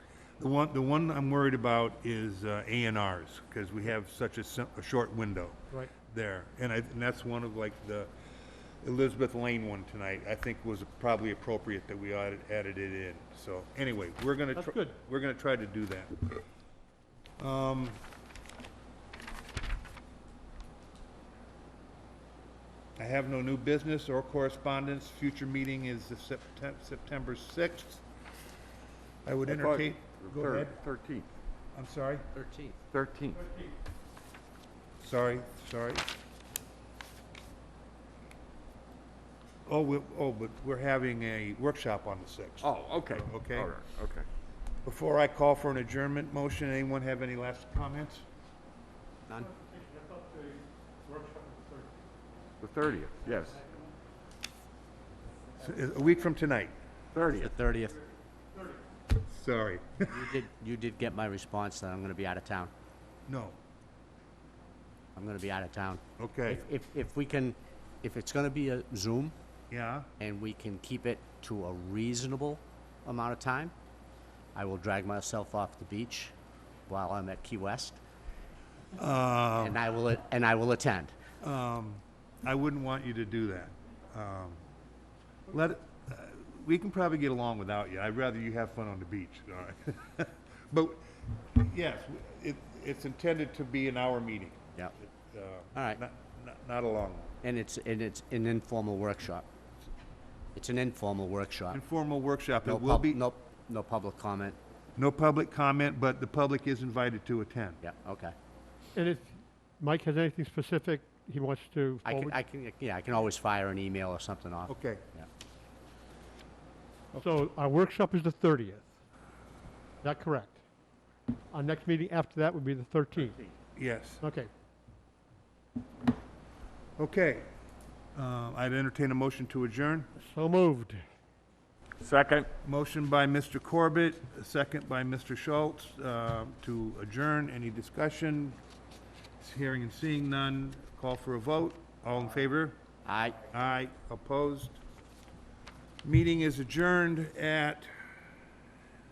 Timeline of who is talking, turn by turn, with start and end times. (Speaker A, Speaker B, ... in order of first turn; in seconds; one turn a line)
Speaker A: 0.4-8.1
Speaker A: 8.8-16.3
Speaker B: 14.6-15.0
Speaker A: 17.4-18.0
Speaker A: 23.0-28.0
Speaker A: 29.2-30.8
Speaker C: 29.4-31.3
Speaker A: 31.7-32.3
Speaker D: 32.3-32.8
Speaker C: 32.9-33.5
Speaker A: 35.0-36.0
Speaker A: 39.6-43.8
Speaker C: 42.6-44.2
Speaker A: 44.8-48.2
Speaker B: 49.3-52.0
Speaker C: 52.6-53.6
Speaker A: 55.6-56.7
Speaker C: 57.1-57.5
Speaker D: 57.4-58.0
Speaker A: 59.1-60.2
Speaker D: 60.1-62.7
Speaker A: 63.3-63.6
Speaker D: 65.2-69.3
Speaker A: 66.2-66.6
Speaker A: 69.7-70.1
Speaker D: 70.2-73.7
Speaker D: 74.5-76.3
Speaker D: 76.9-78.0
Speaker A: 79.0-79.8
Speaker D: 79.6-81.1
Speaker A: 81.4-84.6
Speaker A: 85.5-97.3
Speaker D: 95.7-96.0
Speaker D: 97.4-99.5
Speaker D: 100.5-101.8
Speaker A: 101.7-103.2
Speaker D: 102.6-104.6
Speaker A: 105.0-107.8
Speaker D: 107.8-108.3
Speaker B: 108.9-112.3
Speaker D: 112.0-115.3
Speaker A: 114.7-115.0
Speaker B: 117.2-118.9
Speaker B: 120.0-120.6
Speaker B: 121.5-123.4
Speaker A: 123.7-124.2
Speaker B: 124.2-124.5
Speaker A: 127.0-127.5
Speaker A: 128.1-130.1
Speaker B: 130.2-131.0
Speaker C: 132.0-132.5
Speaker A: 132.6-138.6
Speaker A: 139.4-142.7
Speaker D: 143.0-143.4
Speaker A: 143.5-144.8
Speaker A: 146.0-147.9